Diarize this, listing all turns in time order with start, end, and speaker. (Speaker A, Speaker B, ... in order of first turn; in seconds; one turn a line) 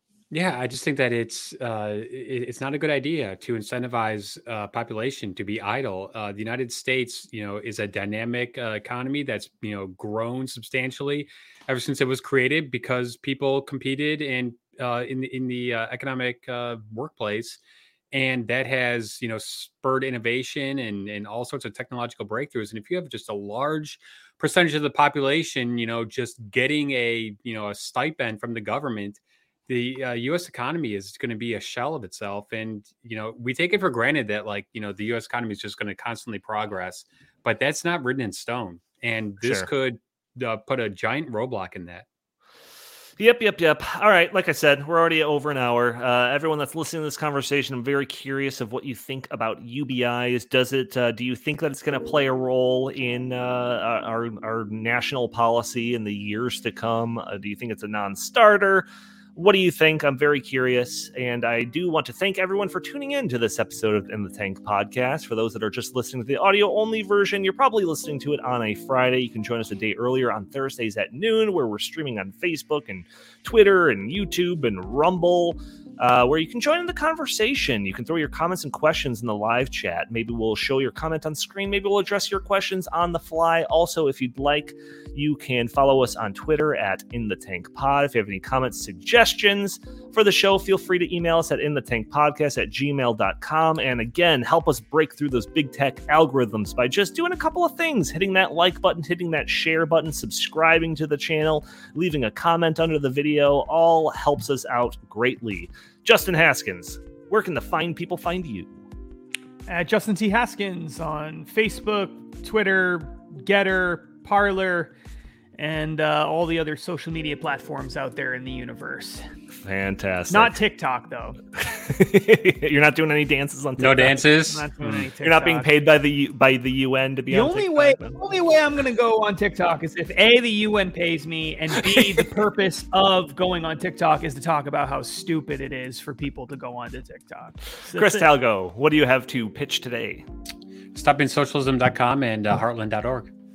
Speaker A: 0.3-17.6
Speaker A: 18.1-42.0
Speaker B: 39.4-39.7
Speaker B: 43.2-108.7
Speaker C: 109.7-114.9
Speaker C: 115.6-119.2
Speaker B: 119.5-120.5
Speaker C: 120.3-121.4
Speaker B: 121.5-124.2
Speaker A: 123.8-125.1
Speaker C: 124.5-125.7
Speaker B: 125.2-128.2
Speaker C: 127.3-138.3
Speaker B: 137.8-140.2
Speaker A: 140.9-143.3